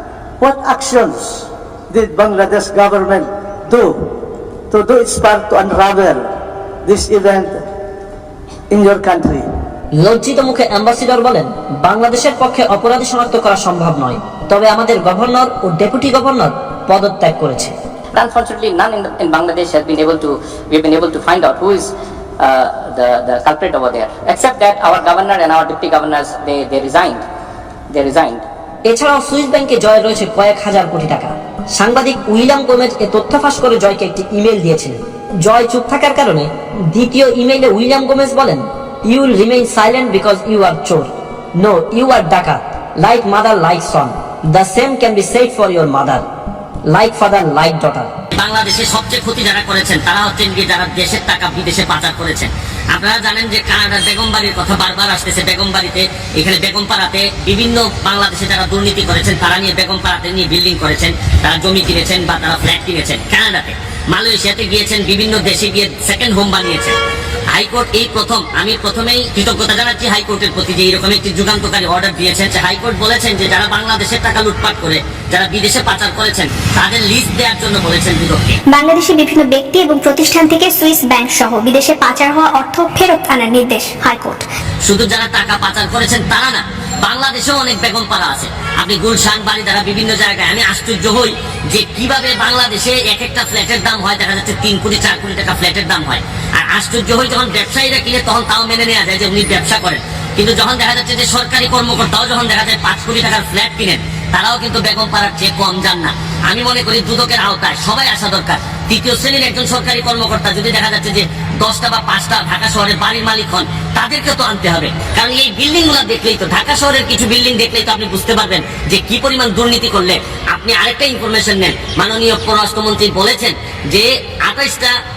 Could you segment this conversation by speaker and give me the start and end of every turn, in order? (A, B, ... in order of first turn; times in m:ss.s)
0:00.4-0:03.9 A
0:04.7-0:06.3 A
0:06.9-0:07.6 A
0:08.7-0:09.5 A
0:09.9-0:17.7 B
0:18.2-0:21.9 C
0:22.4-0:27.2 C
0:27.9-0:28.4 C
0:28.9-0:46.2 B
0:46.9-0:48.1 B
0:48.4-1:06.9 D
1:07.5-1:18.6 D
1:18.7-1:24.4 E
1:24.8-2:04.9 D